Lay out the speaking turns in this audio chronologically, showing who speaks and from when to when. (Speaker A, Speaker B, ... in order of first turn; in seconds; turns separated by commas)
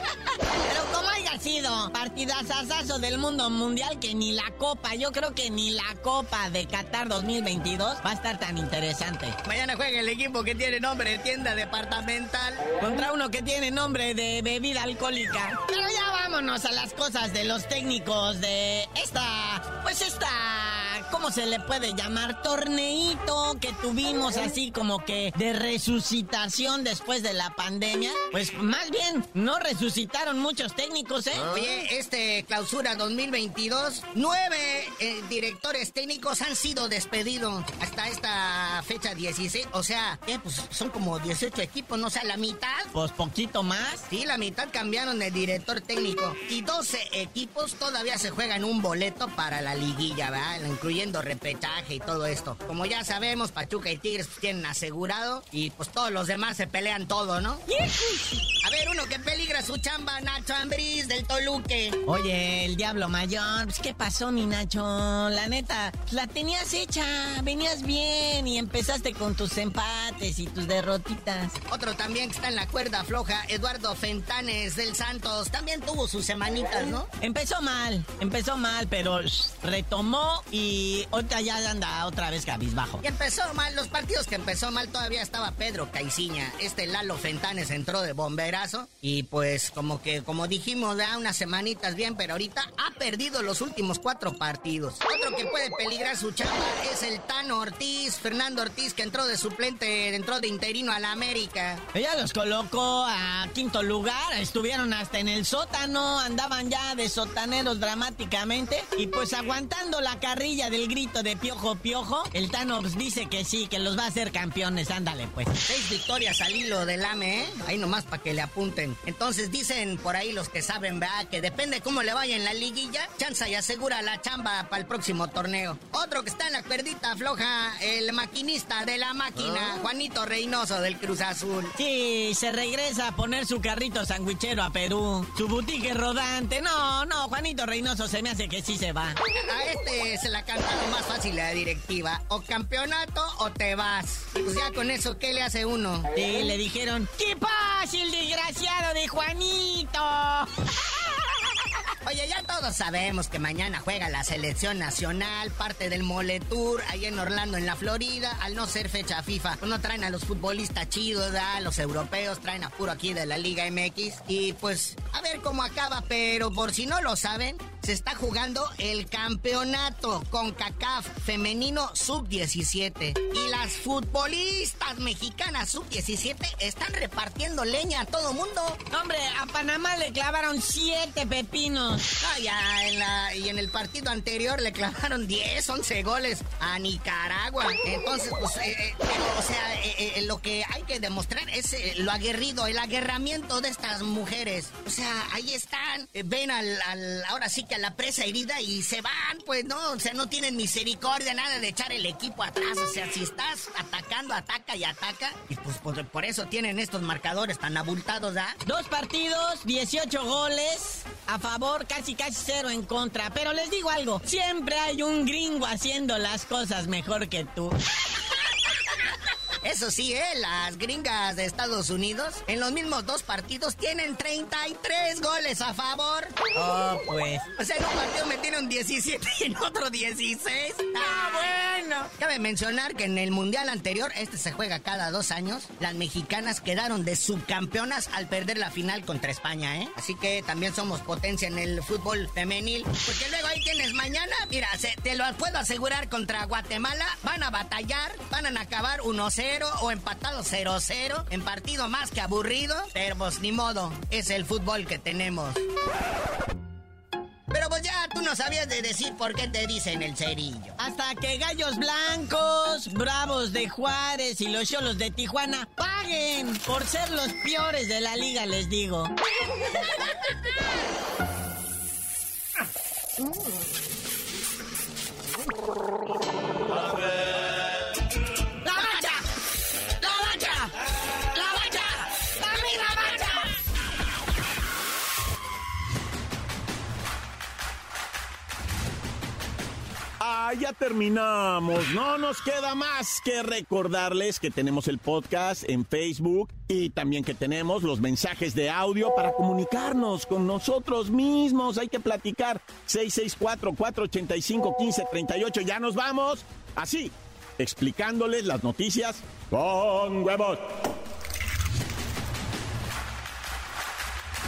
Speaker A: 0.7-9.3, Speaker B: 9.4-12.7, Speaker A: 12.8-31.5, Speaker B: 31.4-42.9, Speaker A: 42.9-44.0, Speaker B: 44.1-57.6, Speaker A: 57.7-58.5, Speaker B: 58.6-62.0, Speaker A: 62.1-71.6, Speaker B: 71.7-77.1, Speaker A: 77.2-83.0, Speaker B: 83.0-101.8, Speaker A: 101.9-115.5, Speaker B: 115.7-131.7, Speaker A: 131.8-139.2, Speaker B: 139.3-146.1, Speaker A: 146.1-150.5, Speaker B: 152.0-178.8, Speaker A: 178.9-182.0, Speaker B: 182.2-208.6, Speaker A: 208.6-217.8, Speaker B: 219.6-226.5, Speaker A: 226.5-227.5, Speaker B: 227.5-231.5, Speaker A: 231.0-232.1, Speaker B: 232.1-255.6, Speaker B: 257.5-260.8, Speaker A: 260.8-269.1, Speaker A: 278.6-279.2, Speaker A: 280.0-280.7, Speaker A: 281.3-283.5, Speaker C: 290.2-310.7